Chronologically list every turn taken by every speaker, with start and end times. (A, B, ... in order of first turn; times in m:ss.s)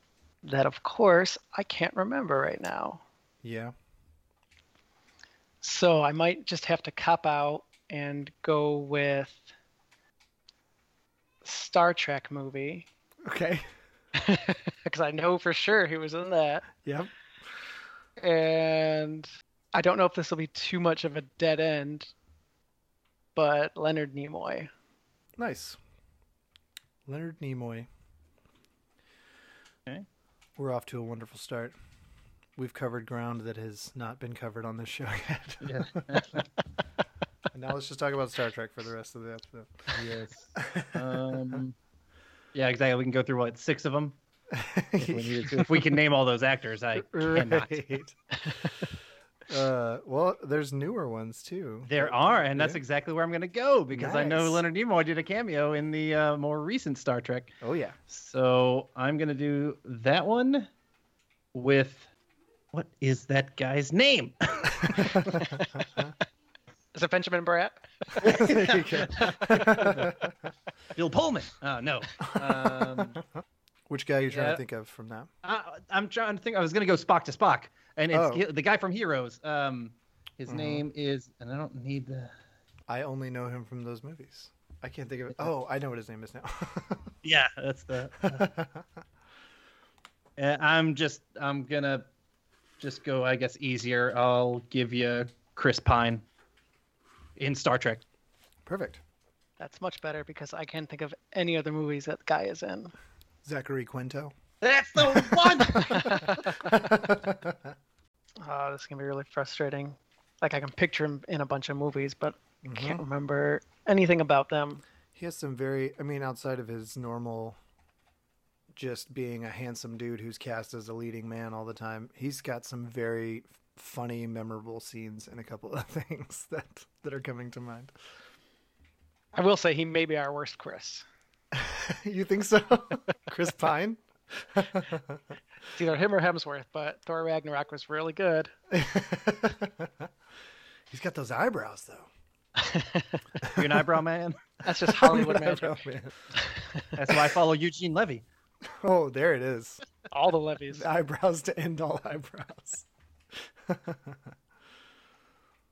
0:00.4-0:03.0 A
0:03.4-0:03.7 B
0:05.6-0:09.5 A
0:11.4-0:12.9 A
0:13.2-0:13.6 B
0:14.2-0:16.6 A
0:16.8-0:17.1 B
0:18.2-0:22.1 A
0:23.3-0:24.7 A
0:25.4-0:25.8 B
0:27.1-0:27.9 B
0:30.6-0:31.8 B
0:32.6-0:36.2 B
0:35.6-0:36.5 C
0:37.5-0:40.0 B
0:39.9-0:41.7 C
0:40.6-0:41.6 B
0:42.5-0:44.2 C
0:44.5-0:45.8 B
0:45.0-0:47.8 C
0:46.9-0:48.2 B
0:49.5-0:52.8 B
0:51.8-0:57.5 C
0:53.9-0:54.6 B
0:57.6-0:58.0 B
0:58.1-1:00.7 C
1:01.5-1:02.1 C
1:02.7-1:05.4 C
1:04.9-1:05.2 B
1:05.7-1:06.1 B
1:06.9-1:10.0 A
1:08.2-1:10.3 B
1:08.2-1:10.1 C
1:10.9-1:13.2 C
1:12.2-1:13.2 B
1:13.9-1:15.3 B
1:14.3-1:14.6 C
1:15.4-1:22.3 C
1:18.1-1:18.4 B
1:20.5-1:20.8 B
1:22.9-1:27.1 B
1:27.2-1:28.5 C
1:28.2-1:28.8 B
1:30.4-1:32.0 C
1:32.8-1:36.2 C
1:37.4-1:38.0 C
1:38.6-1:39.0 B
1:39.6-1:42.9 A
1:43.4-1:44.3 B
1:44.6-1:46.2 C
1:45.0-1:47.7 B
1:45.9-1:46.6 A
1:48.4-1:54.8 A
1:52.6-1:53.0 B
1:55.1-1:57.6 B
1:58.7-2:07.9 B
2:09.3-2:11.0 A
2:11.5-2:15.2 B
2:15.7-2:18.5 A
2:18.7-2:20.1 B
2:20.9-2:22.1 B
2:22.6-2:23.2 A
2:23.4-2:23.8 B
2:23.5-2:24.4 C
2:24.6-2:25.8 A
2:24.8-2:26.2 B
2:26.4-2:26.8 A
2:27.0-2:28.2 C
2:28.6-2:29.8 B
2:30.1-2:30.9 A
2:30.7-2:32.9 B
2:33.6-2:34.3 B